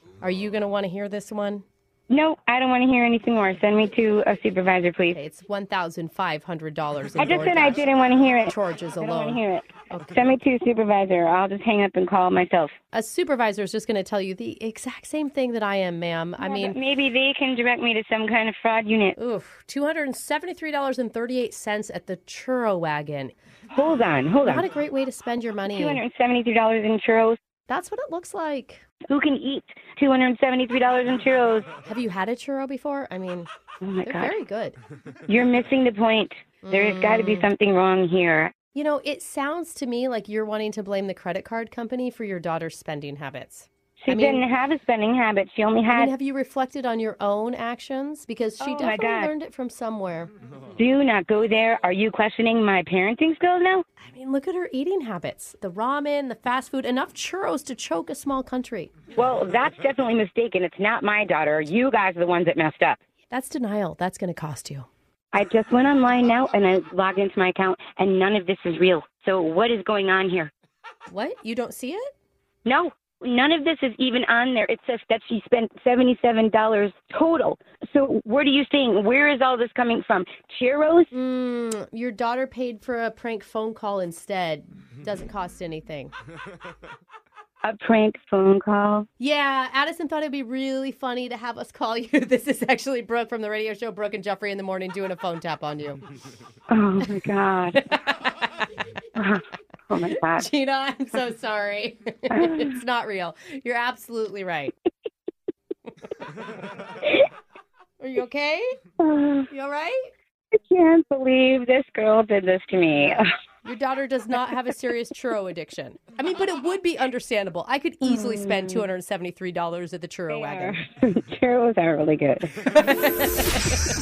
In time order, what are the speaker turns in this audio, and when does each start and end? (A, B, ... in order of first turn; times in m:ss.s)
0:00.2-0:01.6 A
0:02.1-0:05.2 B
0:05.1-0:10.4 A
0:07.2-0:12.7 B
0:12.9-0:16.8 A
0:16.4-0:19.2 B
0:19.2-0:23.3 A
0:23.7-0:24.6 B
0:24.4-0:26.0 A
0:25.7-0:27.4 B
0:27.7-0:28.8 A
0:29.1-0:31.7 B
0:31.8-0:33.5 A
0:33.8-0:34.3 B
0:34.0-0:34.8 A
0:35.3-0:38.5 B
0:36.6-0:37.5 A
0:38.7-0:44.4 A
0:44.0-0:46.1 B
0:45.9-0:50.3 A
0:48.6-0:49.3 B
0:50.8-0:53.8 B
0:54.0-0:58.9 A
0:59.2-1:03.0 B
1:03.3-1:04.9 A
1:05.3-1:10.5 B
1:11.1-1:12.1 A
1:12.6-1:21.1 B
1:21.1-1:26.1 A
1:27.6-1:29.1 B
1:29.2-1:36.0 A
1:36.7-1:37.8 B
1:37.8-1:38.3 A
1:39.2-1:40.5 B
1:40.2-1:44.8 A
1:42.3-1:42.7 B
1:48.0-1:48.8 A
1:49.0-1:49.5 B
1:49.5-1:50.1 A
1:50.5-1:53.3 B
1:53.0-2:00.8 A
1:58.1-1:58.9 B
2:00.3-2:02.8 B
2:02.7-2:03.6 A